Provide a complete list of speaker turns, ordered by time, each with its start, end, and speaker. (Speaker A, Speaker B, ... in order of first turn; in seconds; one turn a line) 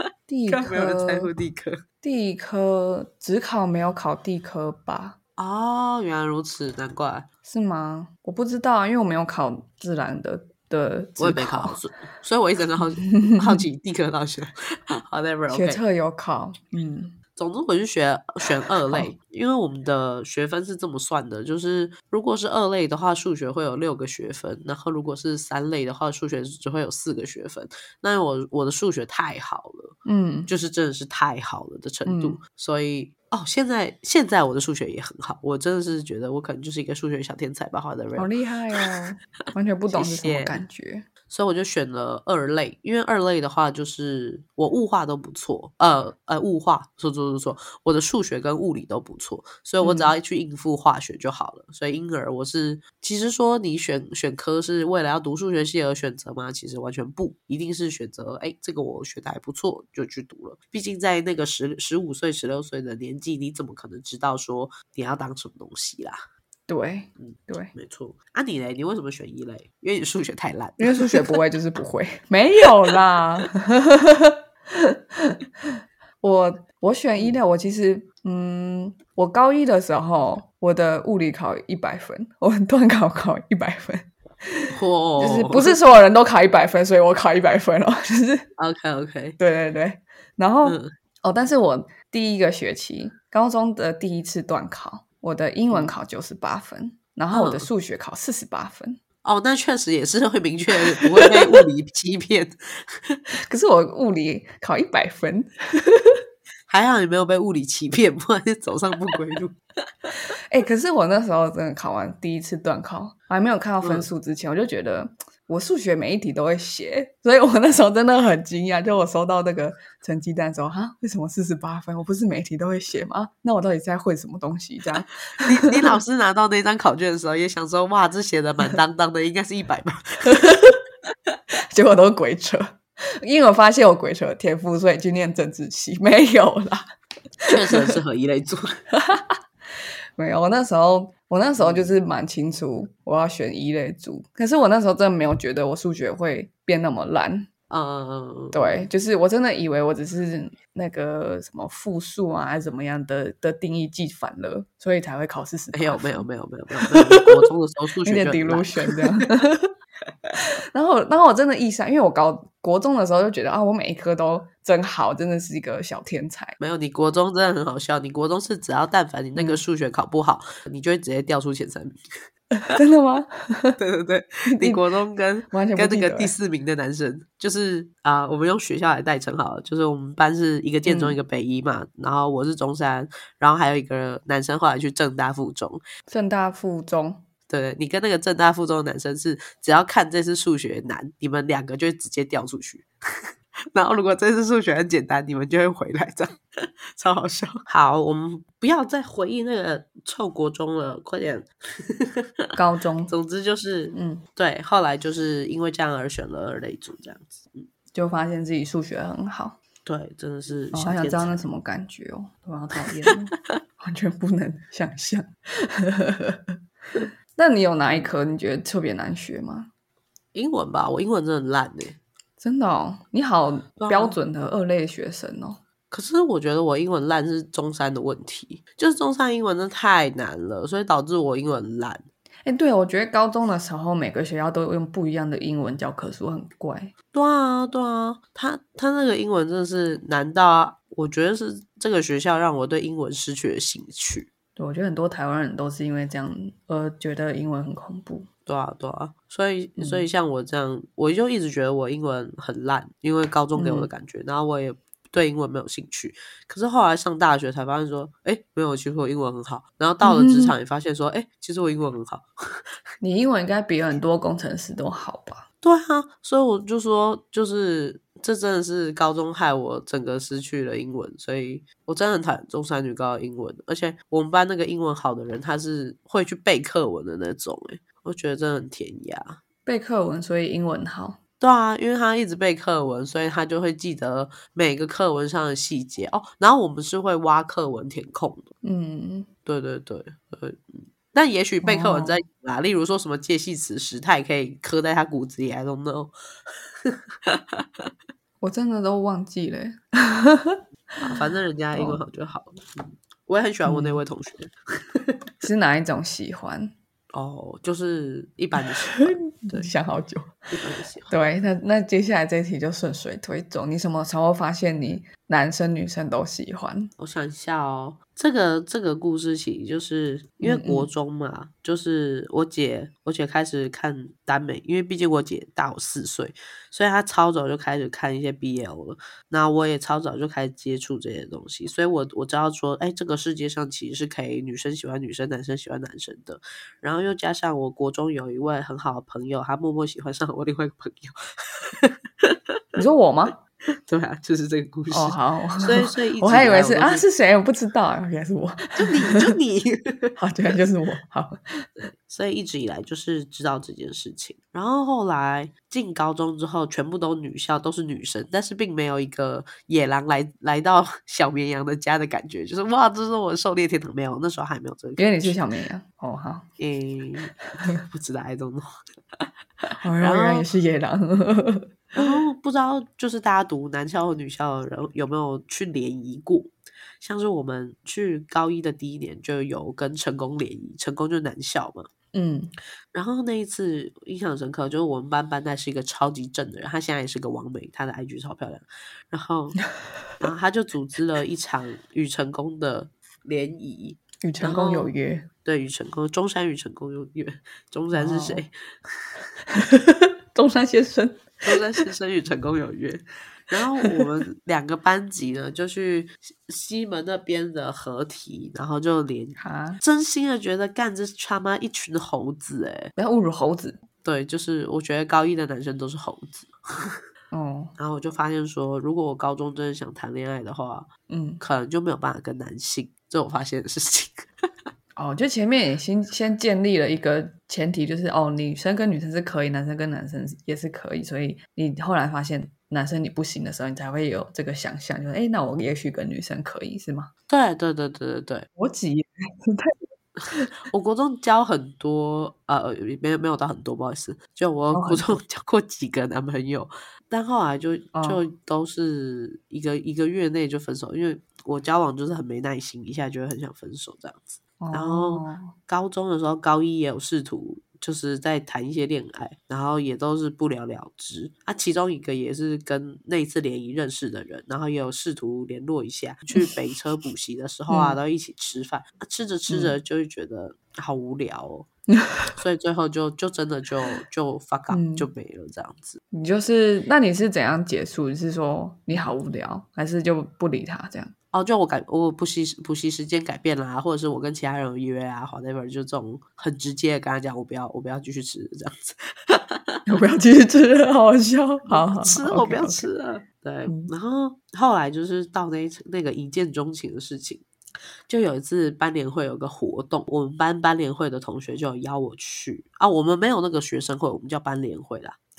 Speaker A: 0.3-1.3
Speaker B: 0.5-1.8
Speaker A: 2.0-5.2
Speaker B: 5.4-7.2
Speaker A: 7.4-11.8
Speaker B: 11.2-15.8
Speaker A: 13.0-13.6
Speaker A: 15.5-17.1
Speaker B: 17.4-38.3
Speaker A: 18.9-19.1
Speaker A: 30.0-30.5
Speaker A: 32.0-32.4
Speaker A: 38.1-41.0
Speaker B: 39.9-40.6
Speaker B: 41.3-66.2
Speaker A: 49.8-50.1
Speaker A: 66.7-67.7
Speaker B: 67.2-71.3
Speaker A: 70.8-75.4
Speaker A: 76.2-88.5
Speaker B: 84.7-85.8
Speaker B: 88.6-89.4
Speaker A: 89.4-99.0
Speaker B: 90.6-90.9
Speaker B: 97.3-97.7
Speaker B: 99.2-103.2
Speaker A: 101.0-101.6
Speaker A: 103.4-106.2
Speaker B: 106.7-109.6
Speaker A: 110.5-125.9
Speaker B: 113.8-114.1
Speaker B: 125.4-130.3
Speaker A: 130.2-130.8
Speaker A: 131.7-136.9
Speaker A: 137.4-137.9
Speaker B: 137.5-138.6
Speaker A: 138.9-139.4
Speaker A: 140.2-147.5
Speaker B: 141.6-141.9
Speaker B: 147.7-148.9
Speaker A: 148.5-156.2
Speaker B: 155.7-159.2
Speaker A: 156.9-157.4
Speaker A: 158.0-159.7
Speaker A: 160.7-166.6
Speaker B: 166.6-172.0
Speaker A: 169.3-169.6
Speaker A: 172.7-173.8
Speaker B: 173.8-185.8
Speaker A: 174.5-174.8
Speaker A: 175.5-176.3
Speaker A: 180.8-181.2
Speaker A: 186.1-187.2
Speaker B: 187.5-202.2
Speaker A: 202.6-203.1
Speaker B: 203.1-207.7
Speaker A: 203.9-204.2
Speaker A: 207.9-209.6
Speaker B: 209.8-211.4
Speaker A: 210.7-216.5
Speaker A: 217.3-219.7
Speaker B: 220.3-222.0
Speaker A: 222.4-225.6
Speaker B: 223.8-224.2
Speaker B: 225.9-232.1
Speaker A: 232.4-236.9
Speaker B: 237.1-244.3
Speaker A: 244.6-248.3
Speaker B: 248.4-262.3
Speaker A: 249.8-250.0
Speaker A: 253.6-253.9
Speaker A: 260.0-260.5
Speaker A: 263.0-265.4
Speaker B: 265.6-279.4
Speaker A: 279.6-281.2
Speaker B: 281.4-288.5
Speaker A: 288.6-289.3
Speaker B: 289.4-296.1
Speaker A: 291.6-292.2
Speaker B: 296.8-297.9
Speaker A: 298.4-301.2
Speaker B: 301.0-305.1
Speaker A: 301.7-302.0
Speaker A: 303.6-304.0
Speaker A: 305.4-306.7
Speaker B: 307.1-309.7
Speaker A: 308.6-310.3
Speaker B: 310.5-311.1
Speaker A: 311.1-316.9
Speaker B: 317.0-342.4
Speaker A: 320.4-320.9
Speaker A: 342.8-343.4
Speaker B: 343.9-347.1
Speaker A: 344.9-349.3
Speaker B: 348.8-350.1
Speaker A: 350.2-351.8
Speaker B: 352.1-365.4
Speaker A: 365.0-366.5
Speaker B: 366.6-368.7
Speaker A: 369.8-372.1
Speaker B: 369.9-370.5
Speaker B: 371.9-381.9
Speaker A: 382.1-382.5
Speaker B: 382.9-389.6
Speaker B: 390.2-394.9
Speaker A: 394.2-395.3
Speaker B: 395.4-398.5
Speaker A: 397.9-398.4
Speaker A: 399.5-401.6
Speaker B: 401.4-412.9
Speaker A: 403.5-404.0
Speaker A: 409.4-409.8
Speaker A: 412.9-413.8
Speaker B: 414.0-417.0
Speaker A: 417.3-417.7
Speaker B: 417.8-420.9
Speaker A: 421.1-421.4
Speaker B: 421.4-424.2
Speaker A: 424.9-437.1
Speaker B: 437.3-438.5
Speaker A: 438.6-439.7
Speaker B: 440.7-471.7
Speaker A: 444.7-445.2
Speaker A: 447.9-448.2
Speaker A: 454.6-455.5
Speaker A: 467.7-468.0
Speaker A: 469.5-469.8
Speaker A: 471.9-472.3
Speaker B: 472.4-476.0
Speaker A: 474.7-475.1
Speaker A: 476.1-481.1
Speaker B: 481.3-489.8
Speaker A: 489.9-492.9
Speaker B: 491.7-497.4
Speaker B: 498.1-505.2